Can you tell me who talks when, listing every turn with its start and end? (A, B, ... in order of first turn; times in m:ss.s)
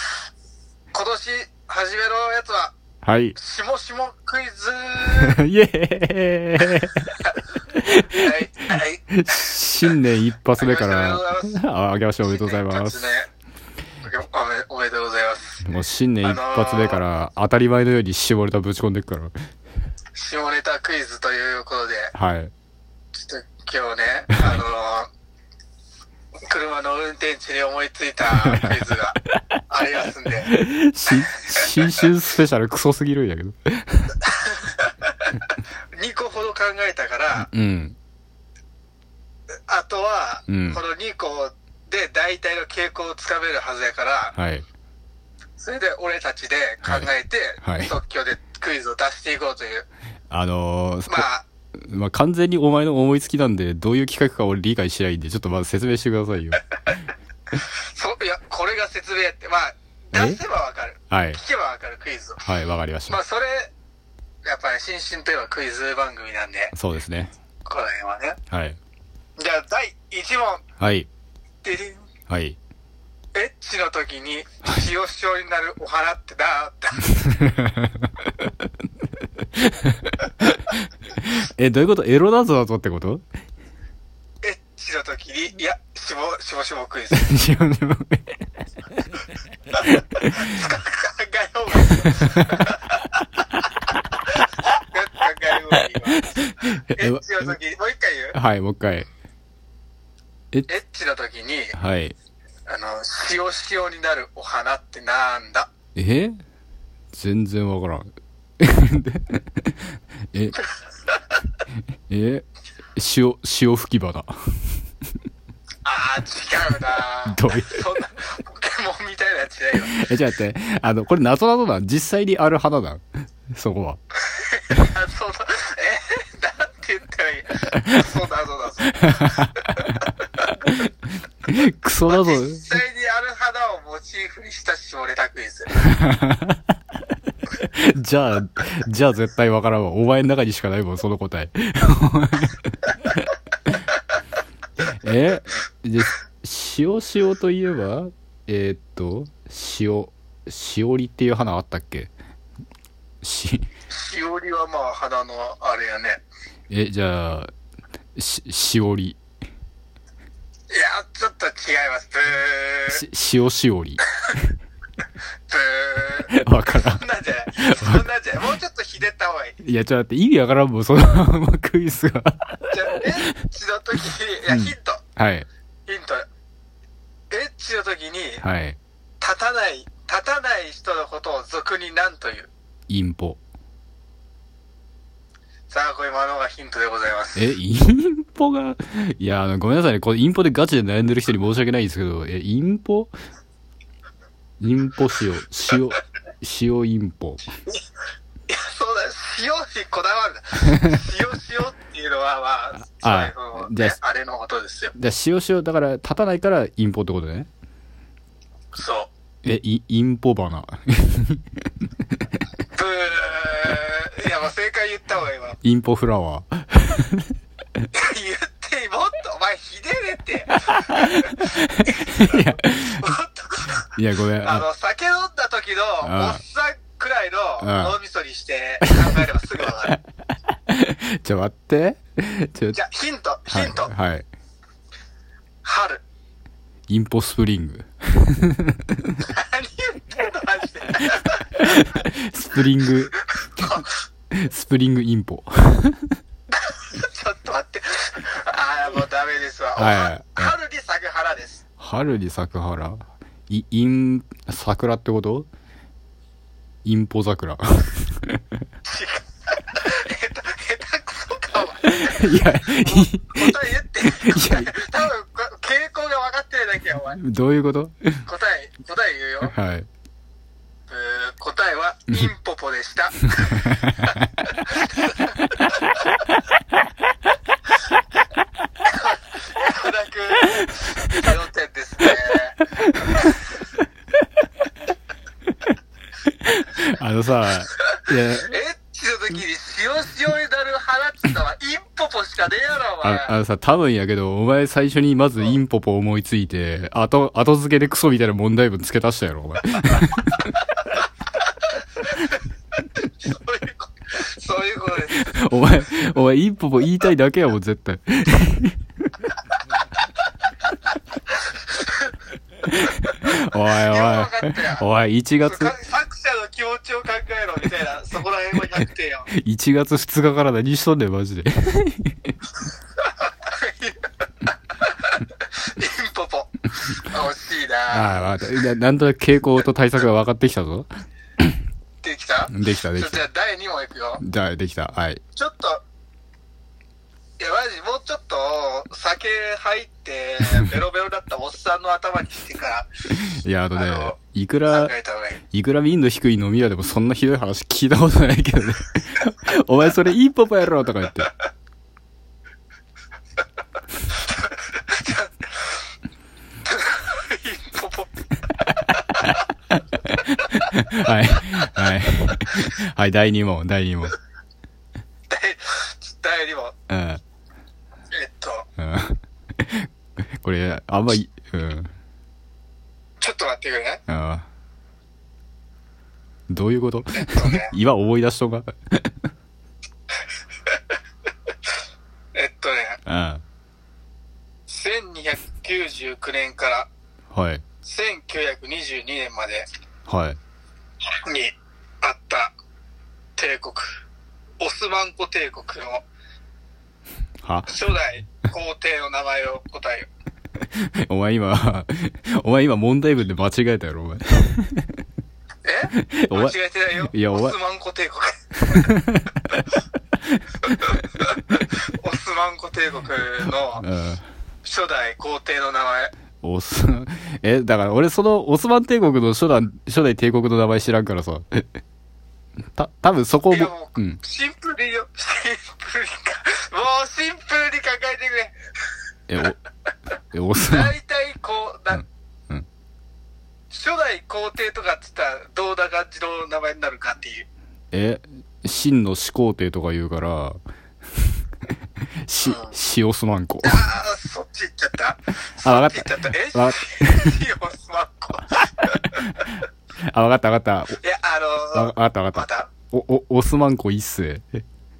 0:00.9-0:02.7 A
0:03.0-0:03.4 B
0:03.4-0:05.4 A
0:05.1-0:13.1 B
0:08.2-0:09.5 A
0:10.6-0:11.6 A
0:12.2-0:13.3 A
0:14.0-0:15.6 A
0:15.6-0:19.3 B
0:16.2-0:17.0 A
0:20.1-0:22.1 A
0:22.1-0:22.5 B
0:23.1-0:25.1 A
0:26.5-0:29.2 A
0:28.4-0:28.8 B
0:29.7-0:30.5 A
0:30.4-0:34.2 B
0:31.1-0:32.1 A
0:34.2-0:35.3 A
0:35.9-0:37.5 A
0:37.3-0:38.0 B
0:39.7-0:44.3 A
0:40.5-0:40.8 B
0:44.3-0:44.6 B
0:45.6-0:49.8 A
0:46.8-0:47.1 B
0:47.6-0:47.9 B
0:50.3-0:56.6 B
0:51.1-0:51.4 A
0:57.6-1:02.4 A
1:00.1-1:00.4 B
1:01.1-1:01.4 B
1:02.4-1:03.2 B
1:03.1-1:03.7 A
1:04.4-1:06.7 A
1:06.7-1:07.3 B
1:07.6-1:08.4 A
1:08.5-1:08.8 B
1:09.4-1:10.6 A
1:10.8-1:11.1 B
1:11.6-1:12.0 A
1:12.3-1:12.6 B
1:13.3-1:17.1 A
1:17.2-1:17.9 B
1:19.5-1:23.2 B
1:24.4-1:27.4 A
1:27.1-1:28.4 B
1:29.8-1:30.5 B
1:30.3-1:33.0 A
1:32.0-1:32.6 B
1:34.9-1:36.2 A
1:36.1-1:37.5 B
1:36.9-1:38.4 A
1:38.3-1:39.1 B
1:40.7-1:41.7 A
1:41.7-1:42.1 B
1:42.7-1:45.7 A
1:45.9-1:46.4 B
1:47.1-1:50.6 B
1:52.1-1:52.4 B
1:53.0-1:54.8 B
1:55.8-1:59.9 A
1:57.2-1:58.0 B
1:59.8-2:04.0 B
2:04.3-2:09.6 A
2:07.7-2:08.0 B
2:09.0-2:10.8 B
2:11.5-2:12.8 B
2:12.1-2:15.7 A
2:15.9-2:16.6 B
2:17.6-2:23.0 B
2:24.8-2:32.1 B
2:33.2-2:33.7 B
2:33.9-2:36.2 A
2:36.7-2:37.5 B
2:38.2-2:39.2 B
2:40.7-2:43.0 A
2:42.9-2:44.0 B
2:45.5-2:49.6 A
2:46.3-2:47.0 B
2:47.5-2:48.0 B
2:49.6-2:53.0 B
2:52.7-2:55.0 A
2:54.5-2:55.5 B
2:55.9-2:56.2 A
2:57.3-2:58.4 A
2:58.4-2:58.8 B
2:59.2-3:02.5 A
3:02.9-3:03.4 B
3:05.7-3:07.5 A
3:07.4-3:13.1 B
3:14.6-3:17.4 B
3:18.5-3:24.9 A
3:22.8-3:24.0 B
3:24.9-3:27.5 B
3:28.7-3:29.1 A
3:29.4-3:31.6 B
3:32.7-3:35.6 A
3:35.6-3:37.3 B
3:37.9-3:41.4 A
3:40.7-3:43.1 B
3:42.0-3:42.4 A
3:43.0-3:43.9 A
3:43.9-3:44.6 B
3:44.4-3:50.0 A
3:46.0-3:46.4 B
3:47.6-3:48.0 B
3:50.5-3:52.8 B
3:52.7-3:53.9 A
3:53.5-3:54.2 B
3:55.6-3:56.0 A
3:56.9-3:59.2 B
3:59.3-4:01.6 A
4:01.6-4:03.7 B
4:03.1-4:03.9 A
4:04.3-4:06.2 B
4:06.7-4:11.6 A
4:09.8-4:10.5 B
4:11.8-4:15.5 B
4:16.8-4:18.4 B
4:18.8-4:27.2 A
4:21.8-4:24.7 B
4:27.2-4:28.2 B
4:28.2-4:29.5 A
4:29.4-4:29.9 B
4:30.9-4:35.8 A
4:33.4-4:34.3 B
4:38.8-4:43.3 A
4:42.8-4:43.4 B
4:46.2-4:48.6 B
4:47.9-4:53.4 A
4:53.0-5:00.5 B
5:03.2-5:05.2 A
5:05.0-5:08.8 B
5:11.7-5:12.1 A
5:12.6-5:15.7 B
5:13.7-5:14.8 A
5:15.4-5:19.3 A
5:19.3-5:22.4 B
5:23.2-5:24.0 A
5:25.1-5:28.6 A
5:27.9-5:31.6 B
5:32.0-5:34.2 A
5:32.5-5:33.2 B
5:34.2-5:35.2 B
5:35.4-5:35.8 A
5:37.4-5:42.9 A
5:43.2-5:44.9 B
5:43.8-5:44.1 A
5:44.7-5:45.4 A
5:45.5-5:51.3 B
5:54.7-5:55.3 A
5:56.6-5:58.1 A
5:58.7-6:04.2 B
6:05.3-6:06.7 A
6:06.9-6:07.2 B
6:08.1-6:08.6 A
6:08.8-6:11.9 B
6:13.2-6:14.0 A
6:14.1-6:14.4 B
6:16.5-6:19.1 B
6:17.2-6:17.7 A
6:22.3-6:23.0 A
6:23.0-6:23.4 B
6:24.7-6:26.9 A
6:27.3-6:27.6 B
6:27.8-6:29.7 A
6:30.1-6:30.4 B
6:31.1-6:32.5 A
6:33.4-6:33.9 A
6:34.6-6:36.0 A
6:37.4-6:37.7 B
6:37.7-6:40.1 A
6:40.7-6:44.9 B
6:45.6-6:48.9 A
6:46.0-6:46.6 B
6:47.1-6:47.6 B
6:48.7-6:49.7 B
6:50.7-6:53.8 A
6:53.8-6:54.2 B
6:54.6-6:56.1 A
6:56.4-7:01.7 B
7:02.7-7:04.2 B
7:03.5-7:08.5 A
7:09.3-7:09.6 B
7:10.3-7:10.9 B
7:10.7-7:12.0 A
7:11.9-7:12.7 B
7:13.7-7:17.4 A
7:17.9-7:20.6 B
7:22.2-7:23.8 B
7:22.4-7:22.7 A
7:23.6-7:28.6 A
7:25.6-7:27.4 B
7:29.1-7:29.5 B
7:30.1-7:31.0 B
7:31.0-7:32.7 A
7:31.7-7:34.6 B